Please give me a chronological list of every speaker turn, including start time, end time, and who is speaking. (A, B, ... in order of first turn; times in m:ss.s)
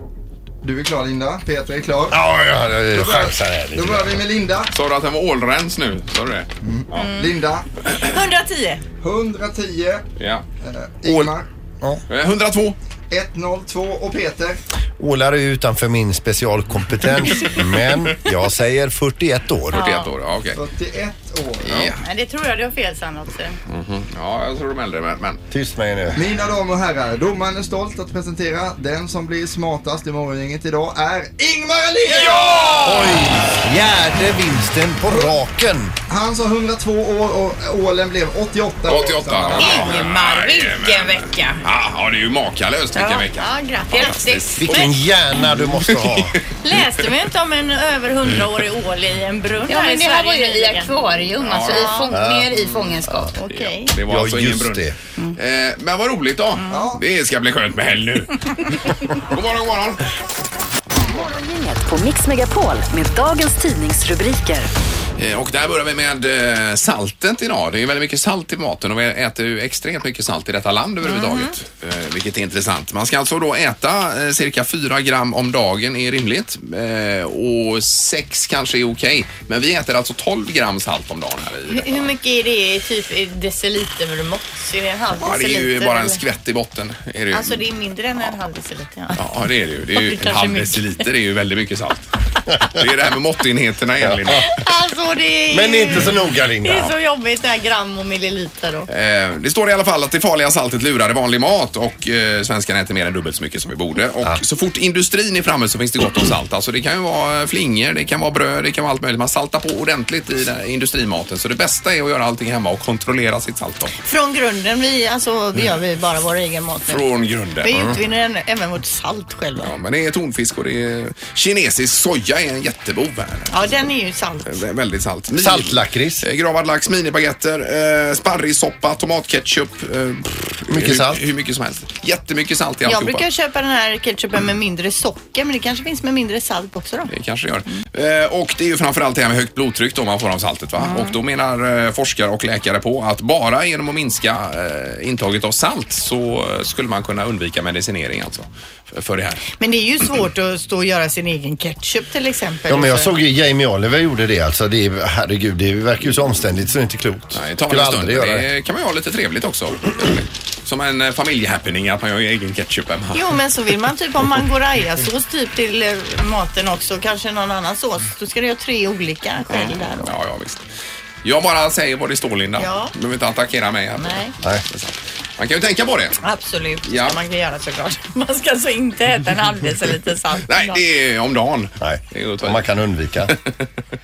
0:00.6-0:02.2 A
0:02.1-0:04.2 B
0:02.9-0:04.7 A
0:04.7-0:07.1 C
0:06.6-0:07.6 A
0:07.0-0:07.3 D
0:08.0-0:08.8 D
0:09.0-0:10.0 A
0:10.2-0:10.4 C
0:10.6-0:11.4 A
0:11.0-0:12.0 B
0:12.1-0:12.8 C
0:13.1-0:14.6 A
0:15.0-0:19.9 B
0:19.7-0:20.6 C
0:19.7-0:20.1 D
0:20.5-0:21.9 A
0:21.6-0:22.0 C
0:21.9-0:23.6 D
0:23.7-0:25.4 C
0:25.5-0:26.2 B
0:26.2-0:33.1 A
0:32.1-0:33.2 C
0:32.8-0:35.9 B
0:36.1-0:40.0 A
0:38.8-0:44.8 C
0:39.6-0:41.6 E
0:42.9-0:44.9 D
0:44.6-0:46.4 B
0:45.5-0:46.4 C
0:46.6-0:50.9 D
0:49.7-0:53.3 E
0:51.4-0:52.0 C
0:51.6-0:52.1 D
0:52.1-0:52.6 B
0:53.3-0:53.9 D
0:53.5-1:00.0 C
0:54.0-0:54.9 B
0:56.7-0:57.0 A
1:01.0-1:04.7 F
1:05.2-1:22.1 C
1:11.0-1:11.5 D
1:21.7-1:26.2 D
1:25.2-1:27.6 C
1:27.3-1:29.2 D
1:29.1-1:32.1 C
1:29.9-1:31.1 D
1:32.6-1:34.5 C
1:34.0-1:34.4 B
1:34.4-1:38.9 D
1:35.5-1:36.9 B
1:38.9-1:53.9 C
1:54.0-1:57.0 D
1:56.9-1:57.7 C
1:57.6-1:59.7 D
1:57.7-1:58.0 B
1:59.6-2:03.5 C
2:03.5-2:04.6 D
2:04.4-2:13.2 C
2:05.3-2:06.2 B
2:10.7-2:11.2 B
2:12.8-2:17.1 D
2:17.1-2:29.4 C
2:20.8-2:21.2 D
2:29.6-2:33.1 D
2:32.7-2:38.5 B
2:37.3-2:43.4 C
2:43.1-2:50.1 D
2:49.5-2:50.6 C
2:51.2-2:56.2 C
2:52.6-2:52.9 D
2:54.0-2:54.3 D
2:56.2-3:00.8 D
2:56.8-2:57.2 C
3:00.5-3:02.6 C
3:01.8-3:03.3 B
3:03.3-3:03.6 C